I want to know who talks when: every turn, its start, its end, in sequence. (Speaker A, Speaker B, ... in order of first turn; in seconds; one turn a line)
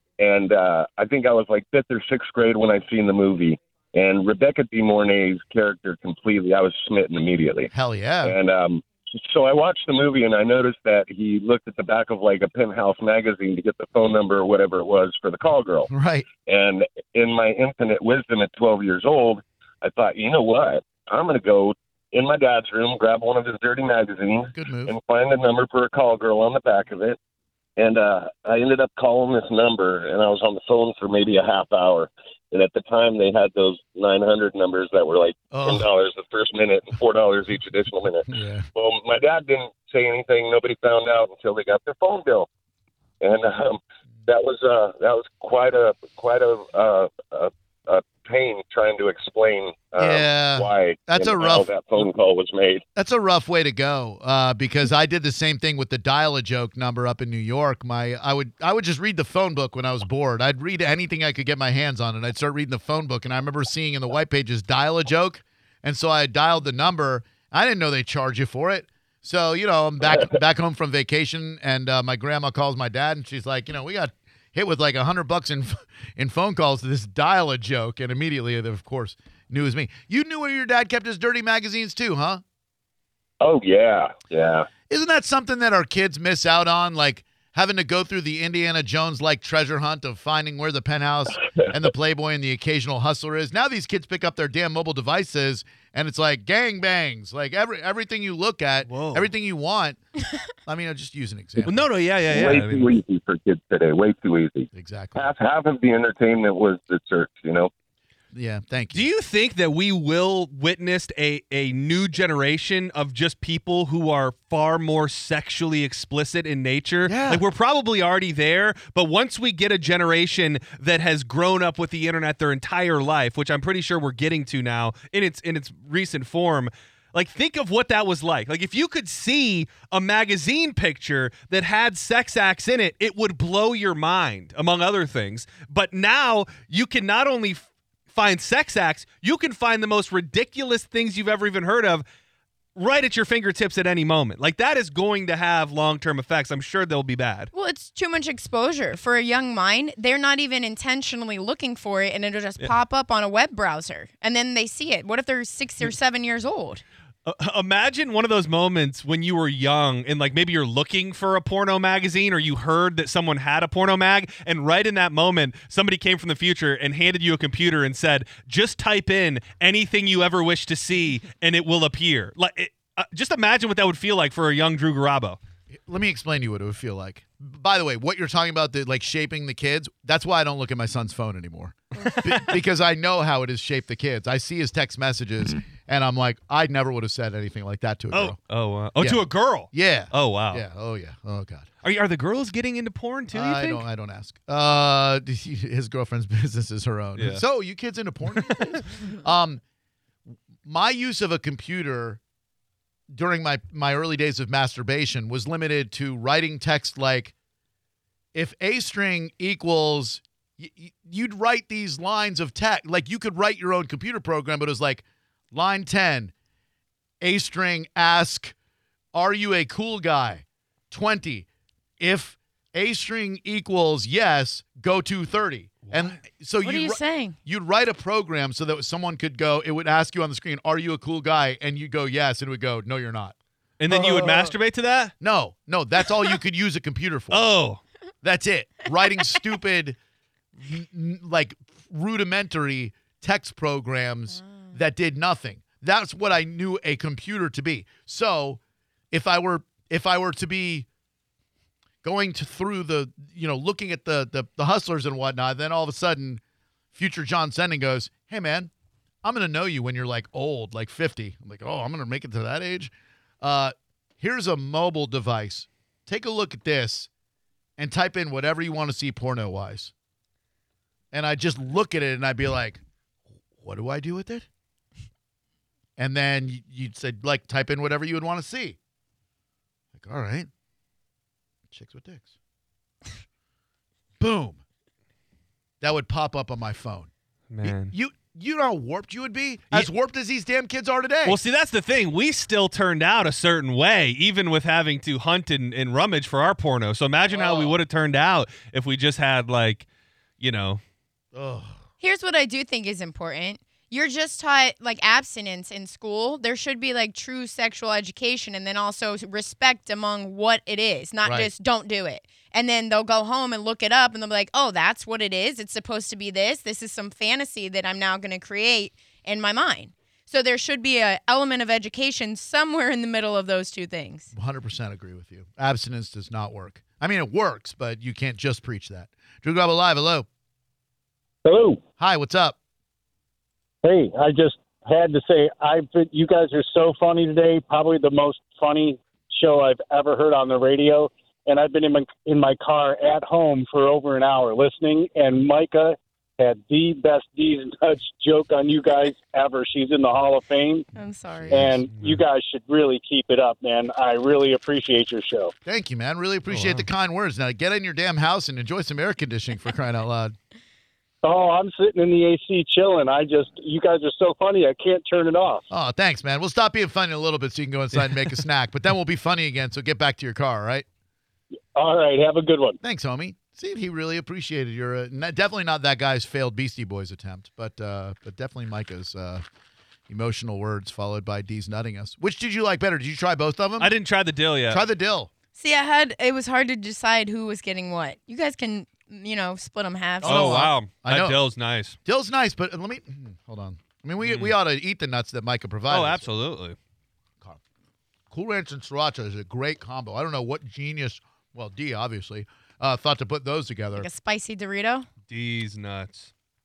Speaker A: 0.2-7.7
Speaker B: 7.7-8.3
Speaker A: 8.2-27.2
Speaker B: 15.9-16.3
Speaker B: 24.5-24.9
Speaker A: 27.8-42.5
Speaker B: 35.5-35.9
Speaker B: 38.3-38.7
Speaker A: 43.2-52.8
Speaker B: 50.0-51.7
Speaker B: 53.0-82.4
Speaker A: 83.4-84.7
Speaker B: 84.9-100.0
Speaker C: 98.9-99.3
Speaker B: 100.7-101.9
Speaker C: 101.6-103.0
Speaker A: 102.3-107.7
Speaker B: 104.7-105.3
Speaker B: 108.3-109.1
Speaker C: 108.9-142.0
Speaker B: 117.0-117.4
Speaker C: 142.8-147.5
Speaker D: 147.5-156.8
Speaker C: 157.2-175.4
Speaker B: 175.7-188.4
Speaker C: 182.0-182.6
Speaker C: 188.1-190.6
Speaker B: 189.0-191.7
Speaker C: 191.8-193.8
Speaker B: 193.3-199.6
Speaker C: 197.2-197.4
Speaker C: 198.3-198.8
Speaker B: 200.6-202.2
Speaker B: 203.1-207.3
Speaker B: 208.3-216.3
Speaker B: 217.2-218.5
Speaker B: 219.1-221.5
Speaker B: 222.0-233.3
Speaker C: 225.8-226.2
Speaker D: 226.6-227.4
Speaker C: 233.8-235.1
Speaker B: 233.9-234.3
Speaker B: 235.2-237.5
Speaker C: 237.3-237.8
Speaker B: 238.2-240.0
Speaker B: 240.6-248.6
Speaker B: 249.1-250.9
Speaker B: 252.0-256.4
Speaker B: 256.9-258.7
Speaker B: 259.2-267.1
Speaker B: 267.8-269.9
Speaker B: 271.1-272.8
Speaker B: 273.6-274.5
Speaker B: 276.0-278.8
Speaker B: 279.9-280.5
Speaker B: 281.7-282.3
Speaker B: 284.2-284.6
Speaker B: 285.8-287.1
Speaker C: 287.5-287.9
Speaker B: 287.6-291.4
Speaker C: 291.2-299.9
Speaker B: 297.3-297.8
Speaker C: 300.4-300.8
Speaker B: 301.3-301.8
Speaker D: 302.0-324.3
Speaker B: 311.2-311.5
Speaker B: 324.3-330.3
Speaker E: 331.4-331.8
Speaker B: 332.0-332.6
Speaker E: 333.8-350.9
Speaker D: 350.9-351.7
Speaker B: 351.3-351.8
Speaker E: 351.5-355.5
Speaker C: 351.9-352.2
Speaker B: 355.6-360.4
Speaker C: 356.5-356.8
Speaker E: 361.2-365.7
Speaker B: 365.7-370.9
Speaker E: 371.7-372.8
Speaker B: 372.8-379.4
Speaker B: 380.1-383.9
Speaker C: 383.8-384.8
Speaker B: 384.7-385.3
Speaker D: 385.6-390.4
Speaker C: 390.2-391.9
Speaker B: 390.2-391.4
Speaker B: 392.0-396.2
Speaker C: 394.2-394.5
Speaker C: 395.9-396.8
Speaker B: 398.3-404.1
Speaker D: 404.0-405.1
Speaker C: 405.3-406.3